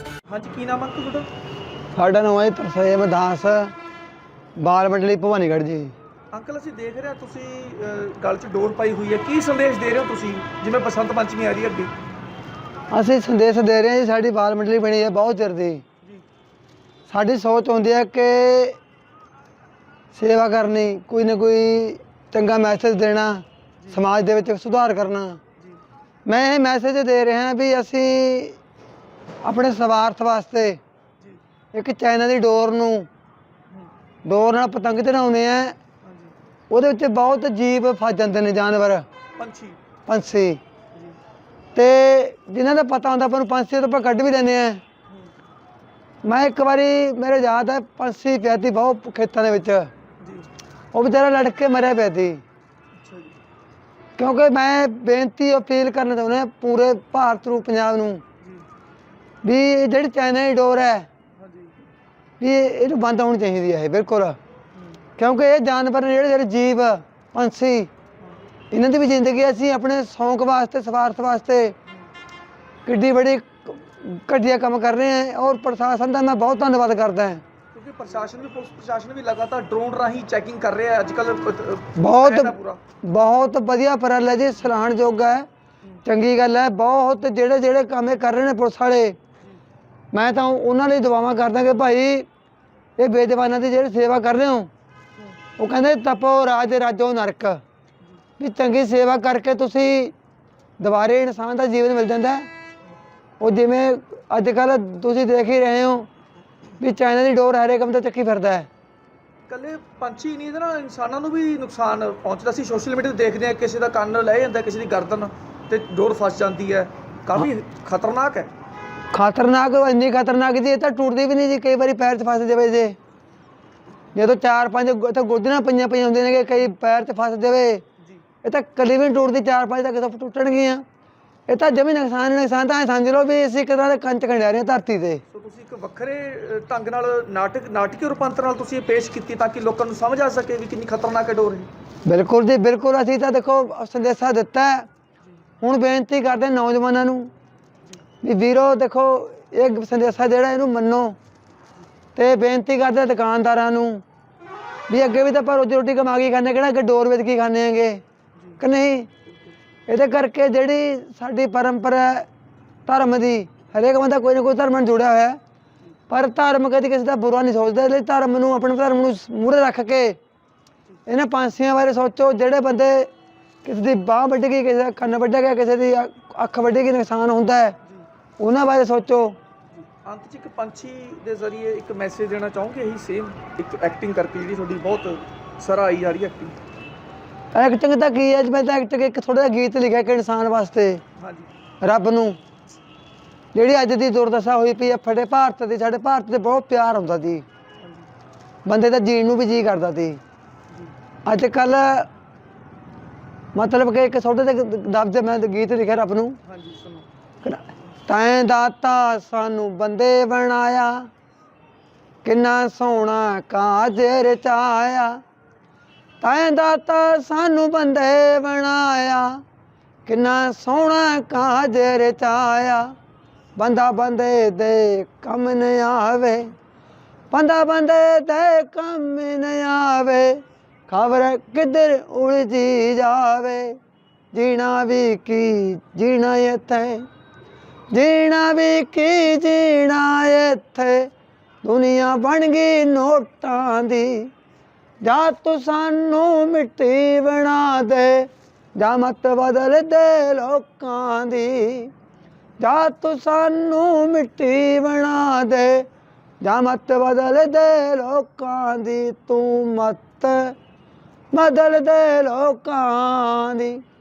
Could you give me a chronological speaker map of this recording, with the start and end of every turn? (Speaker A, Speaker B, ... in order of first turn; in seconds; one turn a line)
Speaker A: 0.3-1.3
Speaker B: 1.9-3.7
Speaker B: 4.6-5.9
Speaker A: 6.3-11.9
Speaker B: 12.9-15.8
Speaker B: 17.1-18.8
Speaker B: 20.1-25.4
Speaker B: 26.2-28.6
Speaker B: 29.4-30.8
Speaker B: 31.7-33.1
Speaker B: 34.2-35.8
Speaker A: 36.0-36.3
Speaker B: 36.7-39.0
Speaker A: 39.4-39.8
Speaker B: 40.1-40.6
Speaker B: 41.8-44.8
Speaker B: 46.2-49.9
Speaker A: 50.2-50.5
Speaker B: 50.9-52.4
Speaker A: 53.0-53.3
Speaker B: 54.2-58.2
Speaker A: 58.4-58.7
Speaker B: 59.4-61.1
Speaker A: 61.4-61.8
Speaker B: 62.4-64.4
Speaker A: 64.8-65.0
Speaker B: 65.2-67.9
Speaker B: 68.7-71.8
Speaker B: 72.8-77.4
Speaker A: 77.7-82.8
Speaker B: 82.0-85.5
Speaker B: 86.0-89.2
Speaker B: 90.1-92.3
Speaker B: 93.0-94.7
Speaker B: 95.6-97.6
Speaker B: 98.4-100.1
Speaker B: 100.8-102.5
Speaker B: 103.4-106.1
Speaker B: 106.8-108.7
Speaker A: 109.5-118.5
Speaker B: 119.1-123.0
Speaker B: 124.1-127.8
Speaker B: 128.4-130.8
Speaker B: 131.5-135.2
Speaker A: 135.3-141.7
Speaker B: 142.1-144.9
Speaker B: 145.6-147.3
Speaker B: 148.2-151.2
Speaker B: 152.2-154.0
Speaker B: 154.9-158.0
Speaker B: 158.6-159.1
Speaker B: 159.9-162.3
Speaker B: 162.9-165.4
Speaker B: 166.1-170.2
Speaker B: 171.1-173.1
Speaker B: 173.6-177.8
Speaker B: 178.4-179.4
Speaker A: 179.7-186.6
Speaker B: 187.5-191.0
Speaker A: 191.2-191.5
Speaker B: 191.8-192.4
Speaker B: 193.5-197.4
Speaker A: 197.8-198.1
Speaker B: 198.7-200.2
Speaker B: 201.2-202.1
Speaker B: 203.6-206.4
Speaker A: 206.4-207.1
Speaker B: 207.4-211.1
Speaker B: 212.2-215.2
Speaker B: 216.2-219.4
Speaker B: 220.1-222.9
Speaker B: 223.6-226.5
Speaker B: 227.3-233.8
Speaker B: 234.3-237.1
Speaker B: 237.9-241.1
Speaker B: 241.6-244.3
Speaker B: 245.0-251.9
Speaker B: 252.6-255.9
Speaker B: 256.4-260.6
Speaker B: 261.3-263.8